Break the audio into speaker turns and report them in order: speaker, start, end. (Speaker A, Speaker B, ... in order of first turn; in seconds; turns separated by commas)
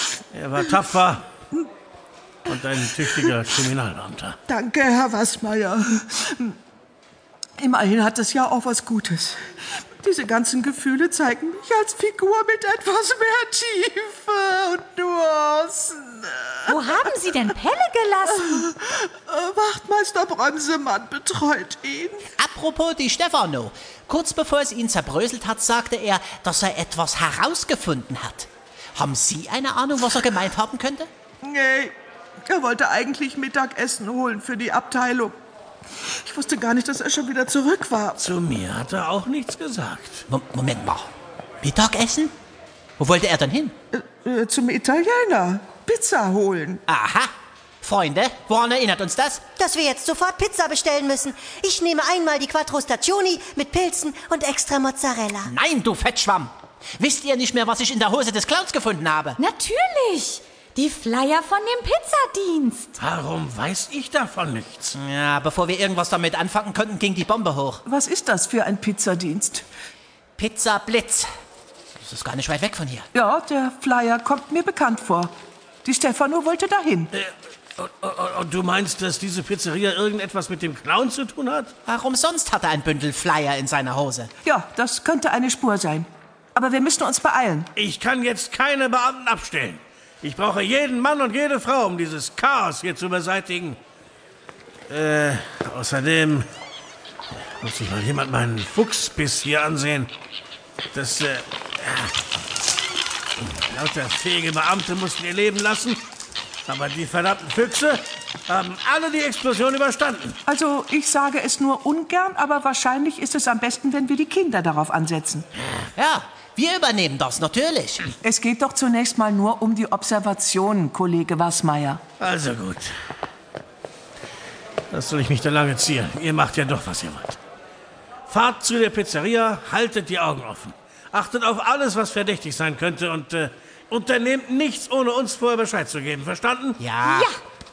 Speaker A: 0.3-1.2, Speaker A: 2.5-4.4, Speaker B: 4.5-6.6, Speaker B: 7.6-9.4, Speaker B: 10.0-16.7, Speaker C: 16.7-18.7, Speaker B: 18.6-22.2, Speaker D: 22.4-31.1, Speaker B: 31.4-31.9, Speaker B: 32.5-35.4, Speaker B: 36.0-38.1, Speaker A: 38.2-40.3, Speaker D: 40.3-41.1, Speaker D: 41.6-42.3, Speaker D: 43.0-43.8, Speaker B: 43.9-46.8, Speaker D: 46.9-47.3, Speaker D: 47.8-49.5, Speaker E: 49.6-55.5, Speaker D: 55.5-59.4, Speaker C: 59.4-63.0, Speaker A: 63.0-65.0, Speaker D: 64.9-67.8, Speaker B: 67.9-69.7, Speaker D: 70.4-71.3, Speaker D: 72.0-73.1, Speaker B: 73.1-75.3, Speaker B: 75.8-77.1, Speaker A: 77.1-81.7, Speaker D: 81.9-84.3, Speaker B: 84.5-87.7, Speaker A: 87.8-93.8, Speaker A: 94.9-96.5, Speaker A: 97.3-100.1, Speaker A: 100.9-102.1, Speaker A: 103.4-106.0, Speaker A: 106.7-110.4, Speaker B: 110.5-115.5, Speaker D: 116.0-118.1, Speaker B: 118.2-122.0, Speaker A: 122.2-122.9, Speaker A: 124.9-127.4, Speaker A: 128.3-136.8, Speaker D: 136.8-137.3, Speaker C: 137.1-137.4